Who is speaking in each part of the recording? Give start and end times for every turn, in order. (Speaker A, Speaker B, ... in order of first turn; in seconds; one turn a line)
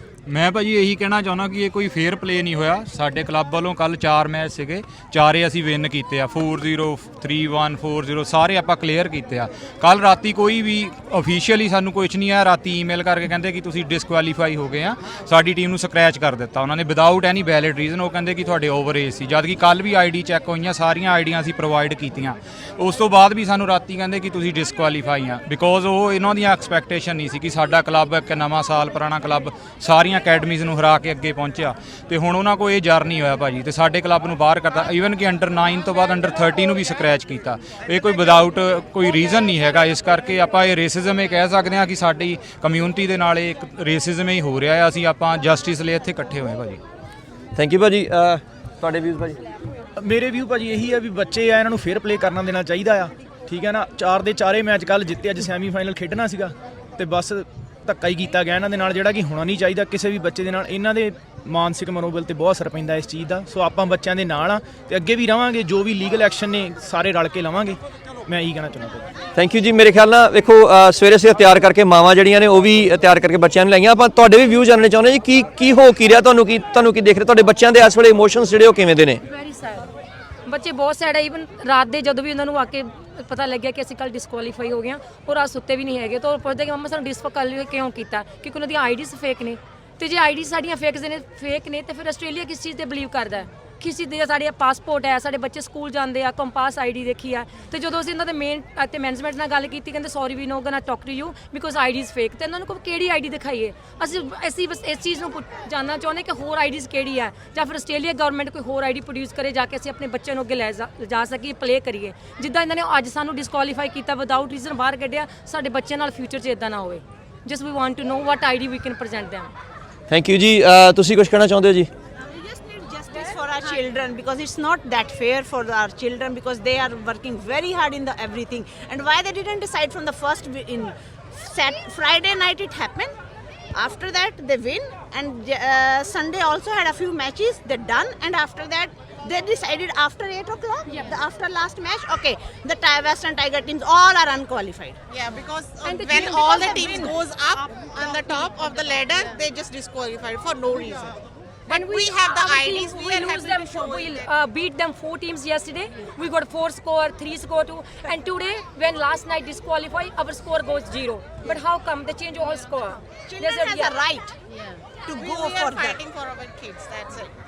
Speaker A: 0.3-46.8
Speaker B: 47.5-49.4
Speaker C: 50.0-69.1
Speaker B: 69.3-79.2
Speaker D: 79.3-79.9
Speaker D: 80.5-119.5
Speaker B: 120.1-121.9
Speaker E: 122.3-133.1
Speaker E: 133.8-145.0
Speaker F: 145.1-151.2
Speaker D: 145.8-147.2
Speaker F: 151.7-154.3
Speaker D: 151.7-163.9
Speaker E: 163.3-164.3
Speaker F: 165.1-167.3
Speaker E: 165.2-166.0
Speaker B: 165.2-165.9